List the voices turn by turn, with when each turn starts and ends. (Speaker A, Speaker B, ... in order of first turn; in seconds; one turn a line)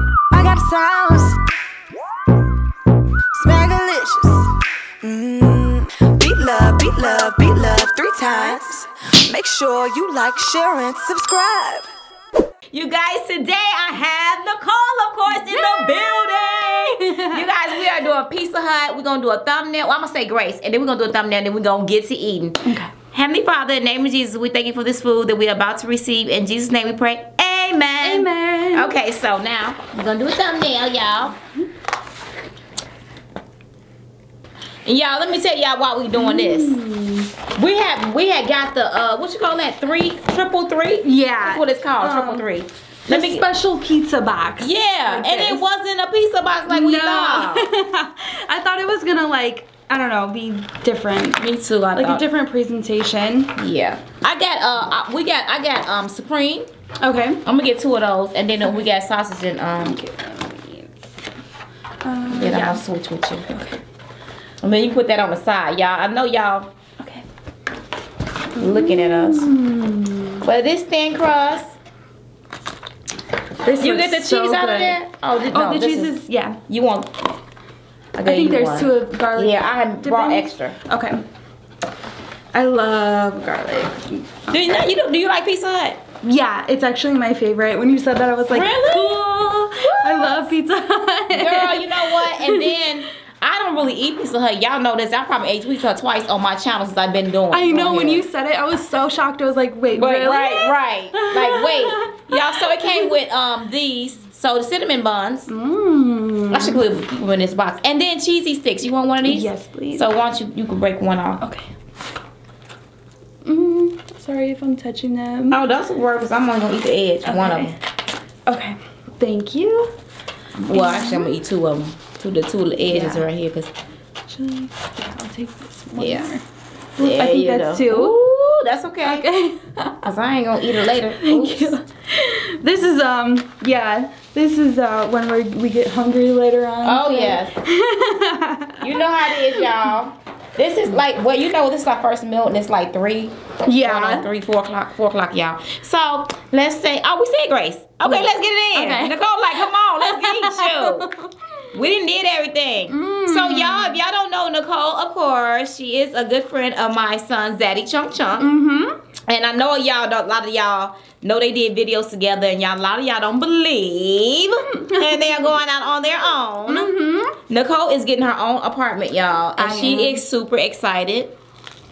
Speaker A: 0.3-1.4
Speaker A: 3.3-11.9
Speaker B: 12.7-31.4
Speaker C: 15.3-17.5
Speaker C: 22.6-22.9
Speaker C: 28.0-28.9
Speaker B: 34.9-36.8
Speaker C: 36.1-37.3
Speaker B: 37.5-43.4
Speaker C: 41.0-42.5
Speaker C: 43.1-45.6
Speaker B: 44.6-47.7
Speaker C: 46.7-51.4
Speaker B: 51.4-52.2
Speaker C: 51.9-53.5
Speaker B: 53.6-56.7
Speaker C: 57.0-57.4
Speaker B: 57.4-60.0
Speaker C: 59.8-61.0
Speaker C: 62.0-62.8
Speaker B: 62.3-63.6
Speaker C: 63.5-63.8
Speaker B: 64.6-66.7
Speaker C: 67.0-67.2
Speaker B: 68.6-69.5
Speaker C: 68.6-70.4
Speaker B: 70.4-71.7
Speaker C: 73.6-76.6
Speaker B: 73.8-76.2
Speaker B: 76.7-77.2
Speaker B: 78.2-80.8
Speaker C: 78.3-81.2
Speaker C: 82.5-84.8
Speaker B: 84.5-86.0
Speaker C: 86.2-92.8
Speaker B: 88.5-89.2
Speaker B: 89.8-90.5
Speaker B: 91.3-98.2
Speaker C: 97.5-103.1
Speaker B: 100.0-105.5
Speaker C: 105.5-106.8
Speaker B: 106.5-111.4
Speaker C: 109.2-110.1
Speaker C: 111.4-111.7
Speaker C: 113.5-115.6
Speaker B: 115.5-117.8
Speaker C: 117.3-117.8
Speaker C: 118.5-119.9
Speaker B: 120.6-123.7
Speaker C: 120.7-121.4
Speaker C: 122.9-123.2
Speaker C: 124.3-126.4
Speaker B: 126.0-126.3
Speaker C: 127.0-128.1
Speaker B: 127.0-129.3
Speaker C: 129.0-130.0
Speaker B: 130.0-131.8
Speaker C: 131.2-138.9
Speaker B: 136.8-137.6
Speaker B: 138.8-151.1
Speaker C: 143.7-144.2
Speaker C: 148.1-151.3
Speaker B: 151.7-158.5
Speaker C: 152.9-154.0
Speaker C: 158.4-159.0
Speaker B: 159.3-166.9
Speaker C: 164.9-165.3
Speaker C: 166.7-167.3
Speaker B: 167.5-171.3
Speaker C: 169.6-170.2